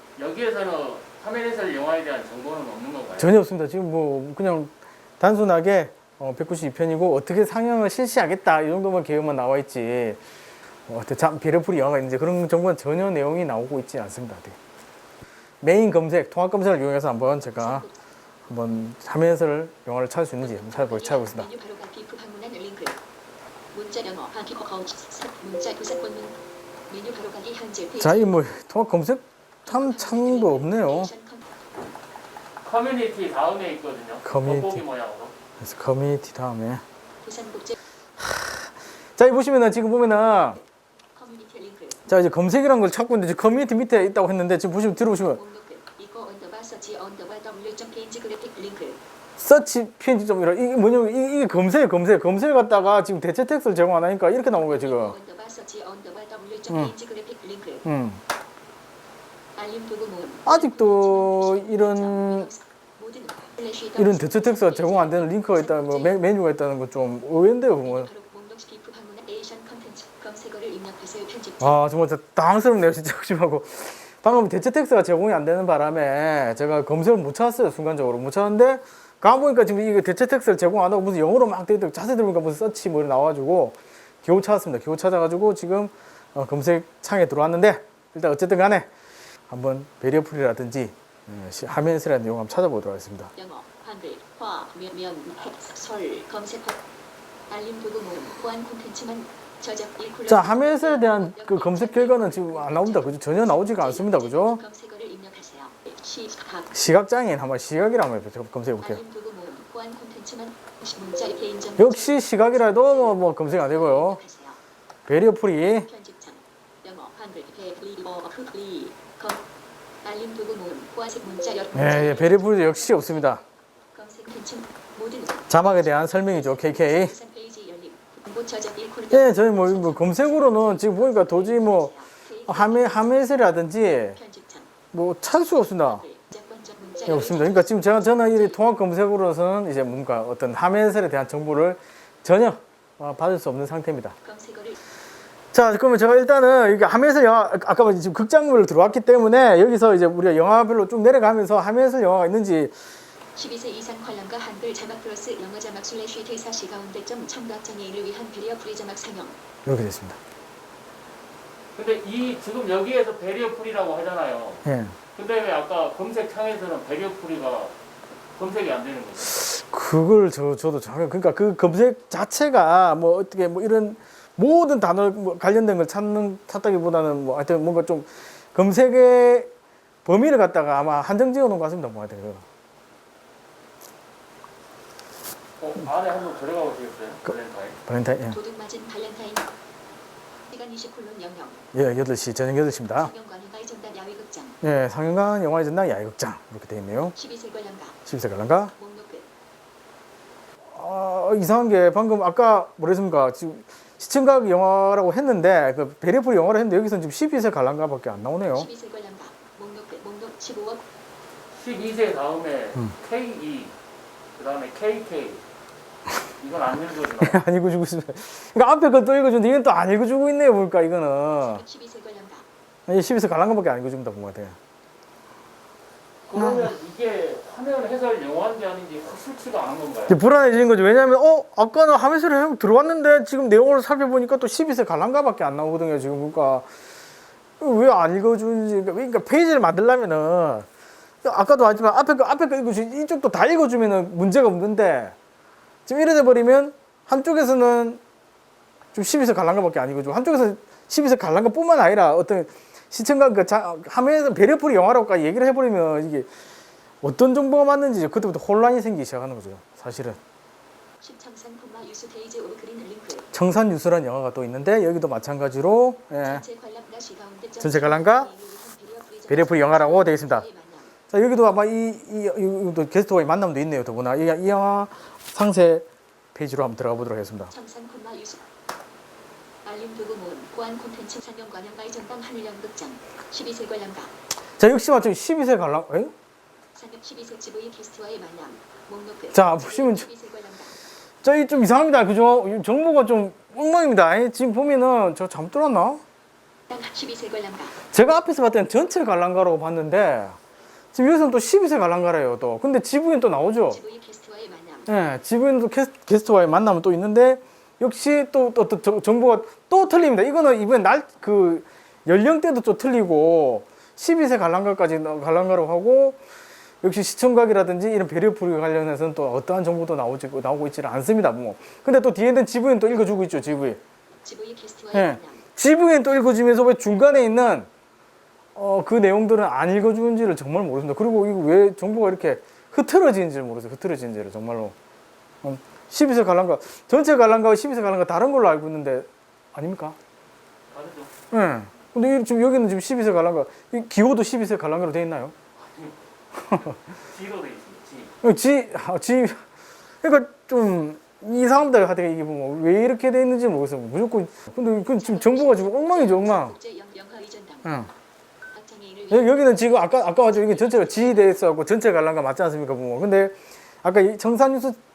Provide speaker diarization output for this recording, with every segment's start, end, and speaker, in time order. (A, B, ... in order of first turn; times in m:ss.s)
0:00.2-0:03.3 A
0:03.2-0:10.2 B
0:10.9-0:14.6 B
0:15.6-0:17.9 B
0:17.5-0:18.0 C
0:18.5-0:21.5 B
0:20.4-0:23.0 C
0:23.7-0:28.4 C
0:28.0-0:31.1 B
0:29.6-0:31.5 C
0:32.6-0:35.3 A
0:34.2-0:34.8 B
0:35.6-0:36.8 B
0:37.2-0:37.8 C
0:38.2-0:40.6 B
0:41.1-0:42.0 C
0:42.1-0:45.4 B
0:45.3-0:49.0 C
0:49.4-0:55.2 B
0:54.6-0:57.8 C
0:57.8-0:58.2 B
0:59.6-1:06.2 C
1:00.5-1:02.5 B
1:04.0-1:08.1 B
1:07.8-1:11.8 C
1:11.6-1:28.9 B
1:29.5-1:33.3 B
1:33.4-1:36.8 C
1:37.5-1:46.7 C
1:40.3-1:44.6 B
1:46.7-1:49.0 B
1:48.8-1:54.6 C
1:51.8-1:54.2 B
1:55.1-1:55.9 B
1:55.7-1:59.5 C
2:00.0-2:03.4 C
2:01.7-2:03.4 B
2:03.9-2:13.3 C
2:05.5-2:07.2 B
2:09.1-2:11.9 B
2:12.5-2:14.2 B
2:14.1-2:14.7 C
2:14.9-2:16.0 B
2:15.8-2:18.6 C
2:17.1-2:24.2 B
2:24.2-2:24.8 C
2:25.5-2:32.7 B
2:33.4-2:39.4 C
2:39.6-2:40.2 B
2:41.8-2:47.7 A
2:44.6-2:45.0 B
2:48.4-2:49.4 A
2:49.3-2:59.5 B
3:00.0-3:02.4 B
3:05.6-3:07.8 A
3:07.9-3:08.4 B
3:08.3-3:09.5 C
3:10.5-3:11.6 C
3:11.7-3:13.1 B
3:13.0-3:14.6 C
3:14.6-3:17.2 B
3:17.2-3:18.0 C
3:18.1-3:18.7 B
3:18.8-3:19.3 C
3:20.7-3:28.7 B
3:28.5-3:30.8 C
3:31.5-3:33.7 A
3:34.4-3:35.4 A
3:36.4-3:37.4 A
3:37.2-3:41.6 B
3:41.4-3:42.5 C
3:42.9-3:44.6 B
3:46.3-3:50.2 A
3:46.4-3:46.7 B
3:50.1-3:56.7 B
3:57.6-4:00.7 B
4:01.2-4:05.2 B
4:05.9-4:08.0 B
4:08.9-4:16.3 B
4:17.0-4:20.2 B
4:21.0-4:23.3 C
4:23.3-4:26.4 B
4:26.2-4:30.9 C
4:27.6-4:28.3 B
4:29.3-4:30.5 B
4:31.1-4:37.5 B
4:37.5-4:38.4 C
4:39.6-4:44.1 C
4:44.6-4:46.1 B
4:46.7-4:50.8 C
4:49.3-4:50.1 B
4:51.2-4:56.0 B
4:56.7-4:57.8 C
4:57.9-5:00.4 B
5:00.9-5:03.8 B
5:03.7-5:04.9 C
5:04.9-5:16.2 B
5:16.8-5:23.8 B
5:24.2-5:25.4 C
5:24.9-5:27.7 B
5:28.6-5:34.8 B
5:35.4-5:40.0 B
5:40.7-5:41.1 A
5:41.3-5:45.3 B
5:45.6-5:48.1 A
5:46.5-5:46.7 B
5:48.2-5:49.4 B
5:50.0-5:56.6 B
5:54.9-5:57.9 C
5:57.6-5:57.9 B
5:58.5-6:01.5 C
5:59.1-6:04.8 B